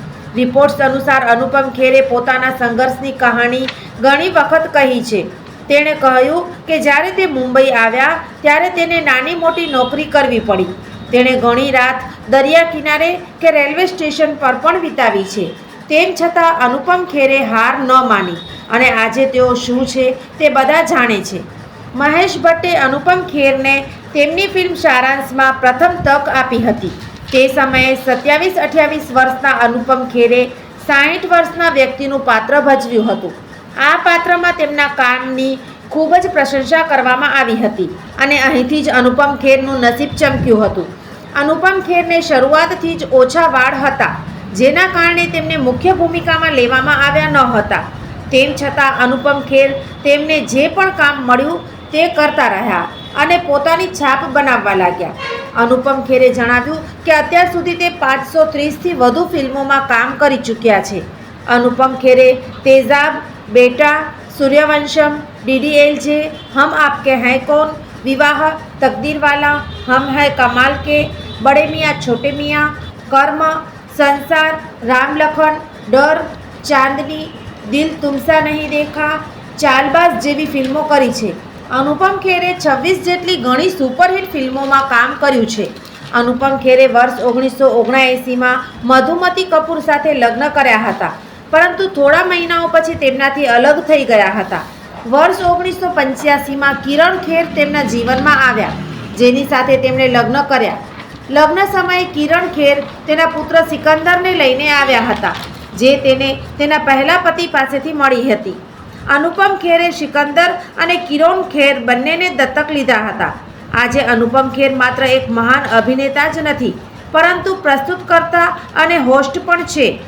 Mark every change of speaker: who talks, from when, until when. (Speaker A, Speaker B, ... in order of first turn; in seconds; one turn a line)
Speaker A: 0.3-108.6
Speaker A: 109.1-120.0